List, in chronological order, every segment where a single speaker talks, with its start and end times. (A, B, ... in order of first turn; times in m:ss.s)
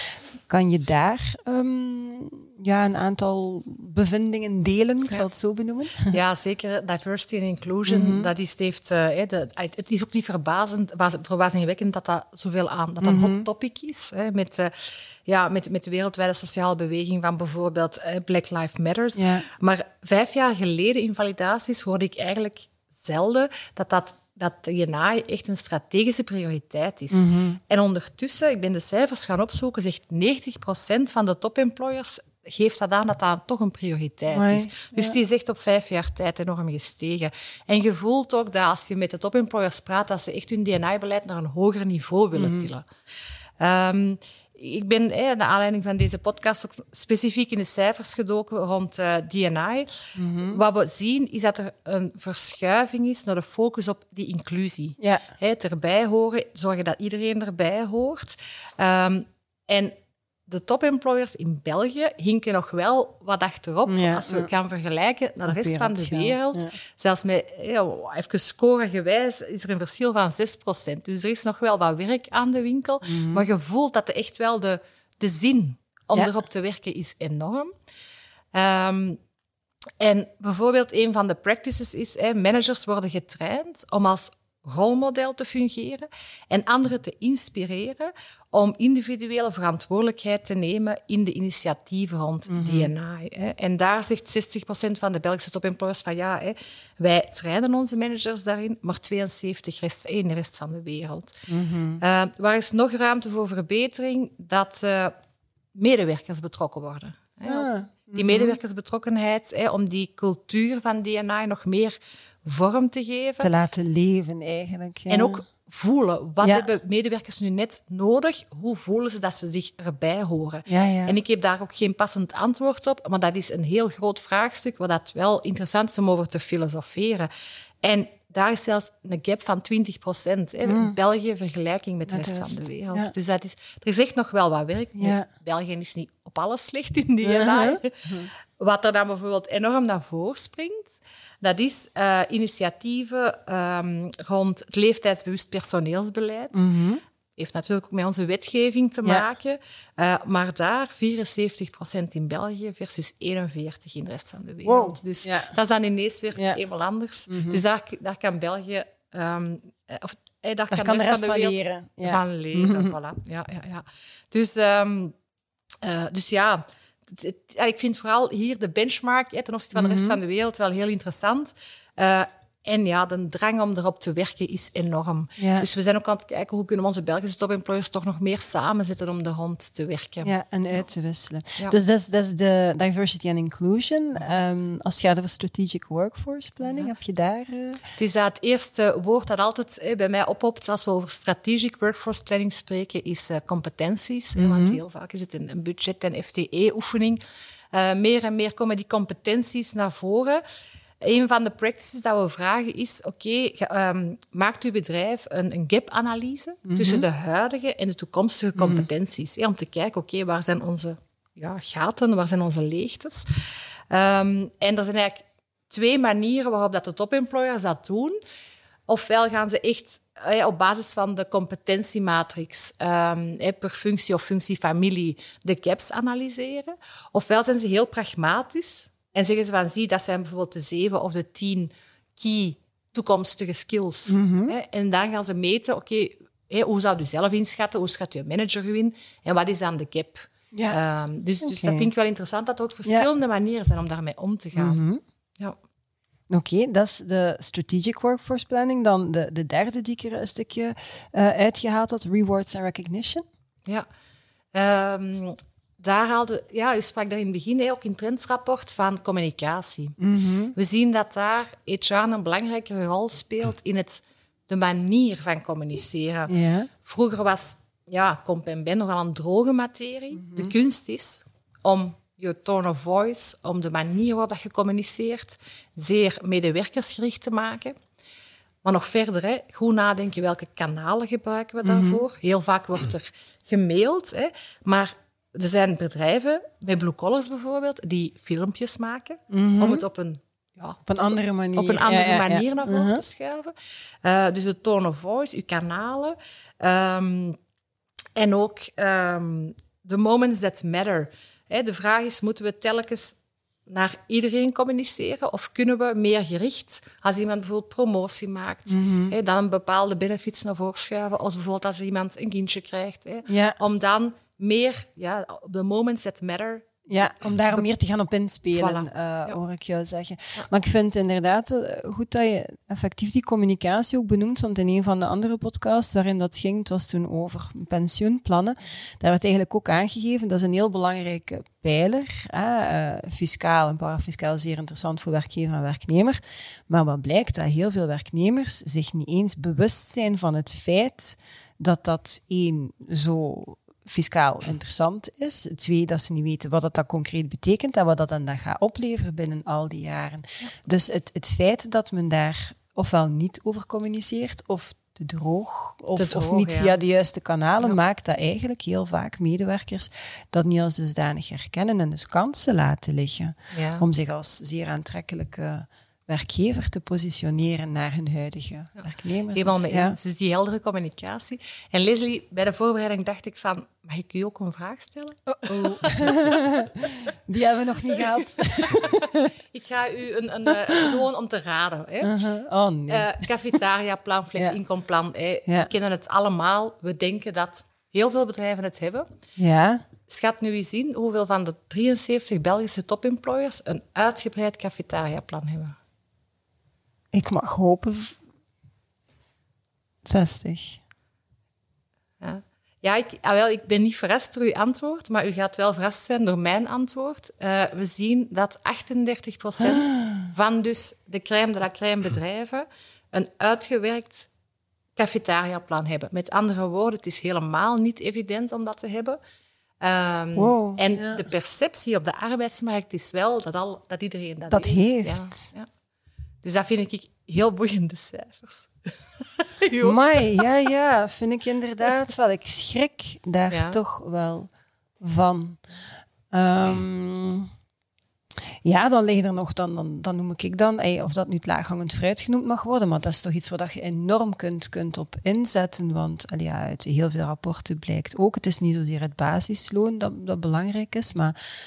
0:00.5-0:06.2 A
0:06.1-0:14.7 B
0:07.9-0:08.3 A
0:13.0-0:13.5 A
0:15.3-0:42.9 B
0:19.2-0:19.5 A
0:27.1-0:27.6 A
0:34.3-0:35.2 A
0:42.4-0:42.7 A
0:43.6-0:49.9 B
0:50.2-0:50.6 A
0:50.4-0:59.9 B
1:00.5-1:17.7 B
1:03.9-1:04.5 A
1:05.5-1:06.8 A
1:13.0-1:13.4 A
1:18.5-1:19.2 B
1:20.0-1:41.4 B
1:32.5-1:32.9 A
1:41.5-1:42.0 A
1:42.0-1:45.1 B
1:45.8-1:53.5 B
1:47.5-1:48.6 A
1:53.4-1:55.4 A
1:55.1-2:07.3 B
2:00.7-2:01.2 A
2:07.8-2:18.0 B
2:10.6-2:11.0 A
2:12.1-2:13.1 A
2:15.0-2:15.3 A
2:17.2-2:18.3 A
2:18.6-2:26.6 B
2:26.5-2:27.0 A
2:27.4-2:45.1 B
2:34.6-2:35.5 A
2:36.4-2:36.6 A
2:37.3-2:37.6 A
2:40.7-2:42.9 A
2:45.8-3:00.3 B
2:49.8-2:50.2 A
2:55.4-2:55.7 A
3:00.2-3:07.8 A
3:06.6-3:06.9 B
3:08.0-3:17.2 B
3:14.4-3:14.8 A
3:17.7-3:20.4 B
3:21.0-3:33.3 B
3:26.7-3:27.1 A
3:28.6-3:28.9 A
3:33.9-3:38.2 B
3:38.9-4:04.8 B
3:54.1-3:54.5 A
4:01.4-4:01.9 A
4:04.6-4:05.0 A
4:06.3-4:13.2 A
4:14.5-4:20.0 B
4:20.0-4:20.6 A
4:20.6-4:26.3 B
4:26.3-4:26.7 A
4:26.8-4:37.8 B
4:30.2-4:30.5 A
4:38.6-4:53.5 B
4:41.6-4:42.0 A
4:49.3-4:49.8 A
4:50.9-4:53.0 A
4:54.0-4:57.4 B
4:58.2-5:03.2 B
5:03.7-5:16.9 B
5:08.7-5:09.1 A
5:13.3-5:13.6 A
5:16.9-6:10.0 A
5:18.6-5:19.4 B
5:56.0-5:56.8 B
6:03.5-6:03.8 B
6:09.3-6:16.5 B
6:15.3-6:19.3 A
6:18.0-6:22.1 B
6:20.5-6:20.9 A
6:22.0-6:23.3 A
6:22.9-6:29.1 B
6:29.4-6:29.8 A
6:30.1-6:35.8 B
6:37.1-6:38.2 A
6:40.0-6:40.8 A
6:42.2-6:54.3 B
6:49.6-6:50.3 A
6:55.0-6:59.2 B
6:59.8-7:05.7 B
7:00.4-7:01.3 A
7:04.5-7:05.5 A
7:06.4-7:10.5 B
7:09.8-7:15.6 A
7:13.5-7:13.8 B
7:16.3-7:17.5 A
7:18.6-7:31.4 A